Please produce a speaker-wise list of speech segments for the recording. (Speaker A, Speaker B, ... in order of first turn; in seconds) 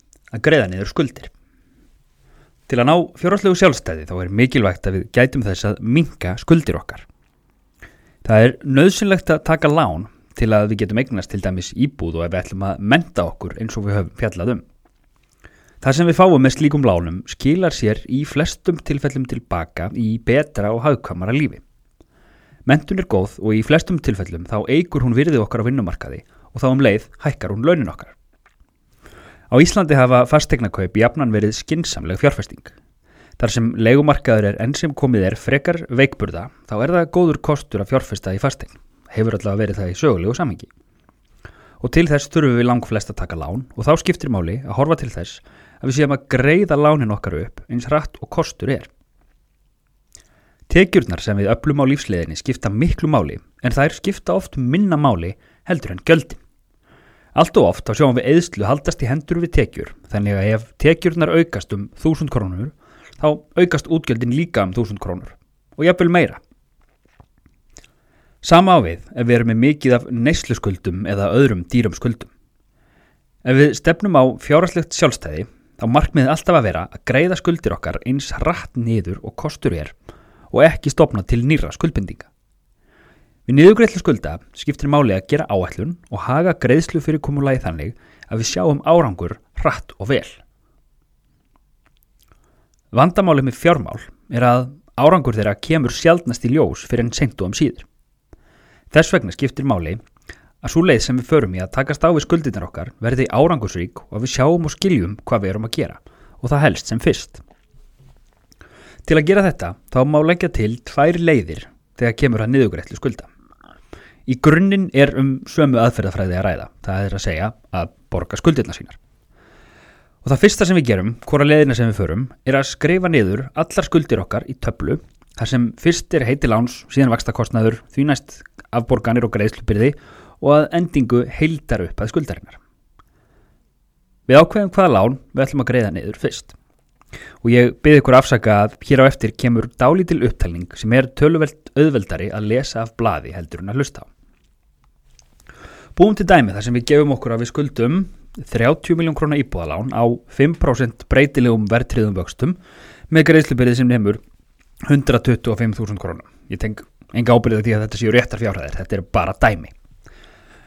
Speaker A: 0.3-1.3, 2.7-7.0, 8.2-14.6, 15.8-21.6, 22.6-28.1, 29.5-32.7, 33.4-40.7, 41.8-48.9, 50.7-56.4, 57.3-66.4, 68.4-72.3, 73.4-79.9, 80.5-82.3, 83.5-90.4, 92.9-97.9, 98.9-100.0, 100.6-107.4, 109.0-113.3, 114.3-119.0, 120.2-132.6, 134.3-136.5, 137.4-144.1, 145.9-152.6, 153.1-154.2, 154.8-159.7